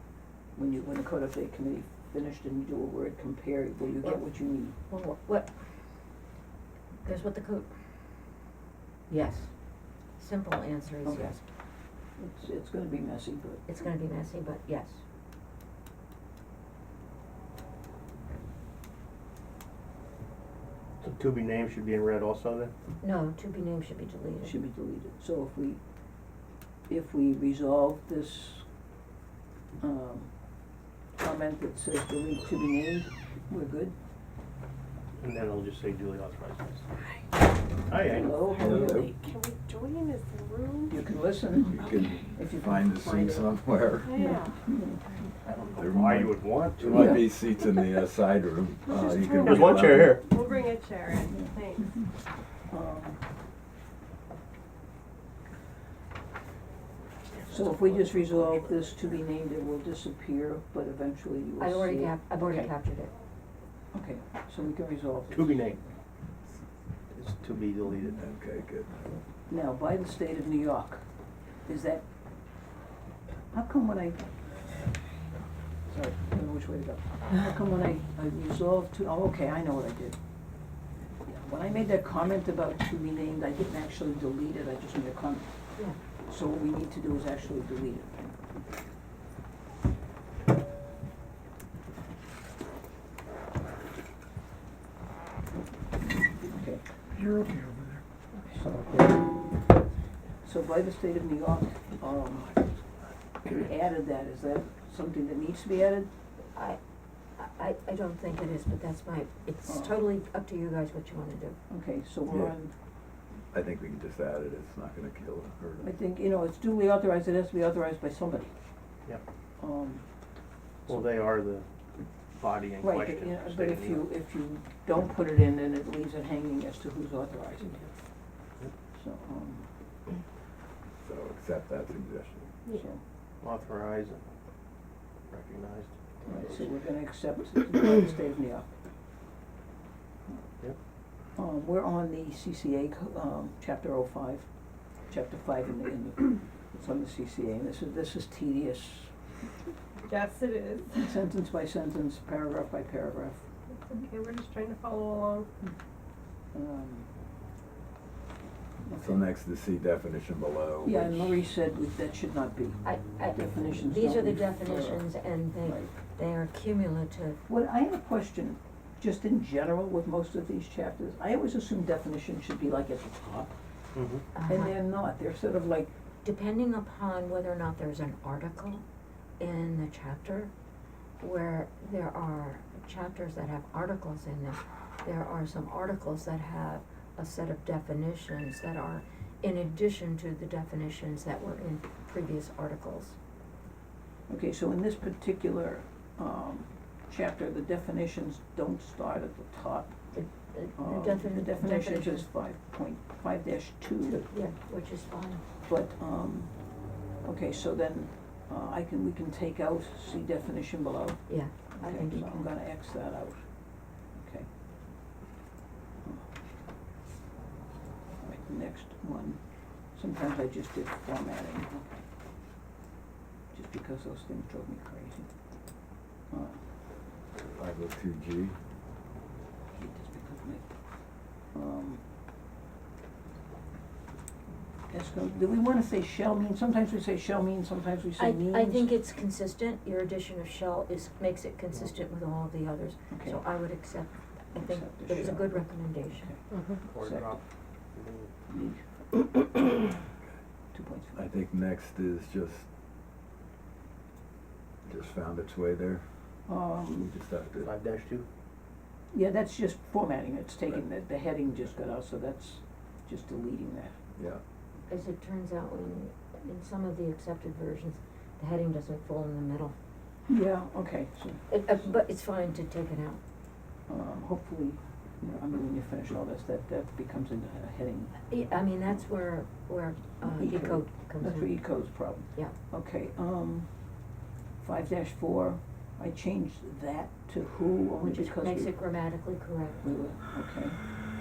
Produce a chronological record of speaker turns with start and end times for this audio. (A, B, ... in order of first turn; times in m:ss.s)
0:00.5-0:04.8 A
0:04.8-0:05.5 B
0:07.0-0:07.7 B
0:09.1-0:09.5 B
0:10.2-0:11.4 B
0:11.0-0:11.4 A
0:12.2-0:13.7 A
0:13.6-0:15.0 B
0:21.0-0:22.7 C
0:23.0-0:24.6 B
0:24.4-0:25.8 A
0:26.9-0:28.6 A
0:29.8-0:30.3 A
0:31.2-0:34.0 A
0:35.2-0:36.8 C
0:37.9-0:38.4 C
0:38.0-0:39.1 A
0:38.2-0:41.0 D
0:38.6-0:39.1 E
0:40.9-0:43.0 A
0:41.6-0:44.4 E
0:44.0-0:44.5 D
0:44.2-0:45.0 A
0:45.4-0:47.2 C
0:45.8-0:50.2 E
0:48.9-0:49.6 D
0:49.4-0:50.2 C
0:50.2-0:51.9 D
0:52.7-0:53.2 A
0:57.4-1:02.7 A
1:01.6-1:03.1 B
1:03.9-1:05.9 A
1:05.3-1:05.8 C
1:07.1-1:08.2 C
1:08.2-1:09.1 E
1:09.5-1:11.0 A
1:11.6-1:12.0 A
1:13.5-1:14.2 A
1:15.9-1:20.2 A
1:21.3-1:25.6 A
1:26.3-1:28.3 A
1:36.4-1:36.8 A
1:37.1-1:37.9 C
1:38.6-1:39.2 A
1:40.4-1:42.6 A
1:43.4-1:46.1 A
1:46.5-1:46.8 B
1:47.4-1:51.6 B
1:49.6-1:49.9 A
1:51.7-1:52.7 A
1:52.3-1:52.5 E
1:53.5-1:55.9 E
1:55.8-1:58.5 A
1:59.6-2:00.0 A
2:00.9-2:01.6 C
2:02.4-2:04.1 C
2:02.8-2:07.9 A
2:08.9-2:09.7 A
2:11.0-2:12.5 E
2:12.7-2:13.0 A
2:13.4-2:14.2 C
2:15.3-2:16.0 C
2:16.2-2:18.7 A
2:21.3-2:24.5 A
2:25.0-2:29.2 A
2:30.0-2:31.2 D
2:30.9-2:33.4 A
2:33.7-2:35.5 D
2:36.5-2:37.1 A
2:38.8-2:39.3 A
2:39.0-2:41.2 E
2:40.8-2:45.9 A
2:42.8-2:47.4 B
2:47.5-2:53.5 A
2:53.9-2:54.2 C
2:54.3-2:54.8 B
2:54.4-2:55.9 A
2:56.2-2:58.8 B
2:59.4-3:00.5 B
3:01.2-3:13.2 B
3:14.3-3:19.9 A
3:20.1-3:22.3 B
3:20.8-3:24.3 A
3:24.1-3:25.4 B
3:25.6-3:26.7 A
3:27.2-3:33.6 A
3:31.3-3:32.5 B
3:34.1-3:34.5 A
3:38.2-3:39.4 A
3:39.9-3:42.0 A
3:43.5-3:45.3 A
3:46.3-3:46.6 A
3:47.5-3:48.6 E
3:49.7-3:50.7 A
3:51.5-3:52.0 A
3:54.9-3:58.9 A
3:58.2-4:06.8 B
4:03.1-4:03.4 A
4:04.5-4:07.4 A
4:06.8-4:07.4 C
4:07.9-4:08.3 C
4:08.5-4:08.9 A
4:10.7-4:11.2 A
4:11.1-4:12.7 E
4:14.8-4:16.0 E
4:16.5-4:17.1 A
4:17.0-4:17.7 E
4:17.5-4:18.2 C
4:19.1-4:24.0 A
4:24.2-4:24.4 E
4:24.9-4:29.7 B
4:30.3-4:31.9 A
4:31.5-4:33.2 B
4:33.9-4:38.2 A
4:38.2-4:41.7 B
4:40.2-4:43.7 A
4:44.6-4:48.7 A
4:48.0-4:49.8 B
4:49.8-4:50.8 A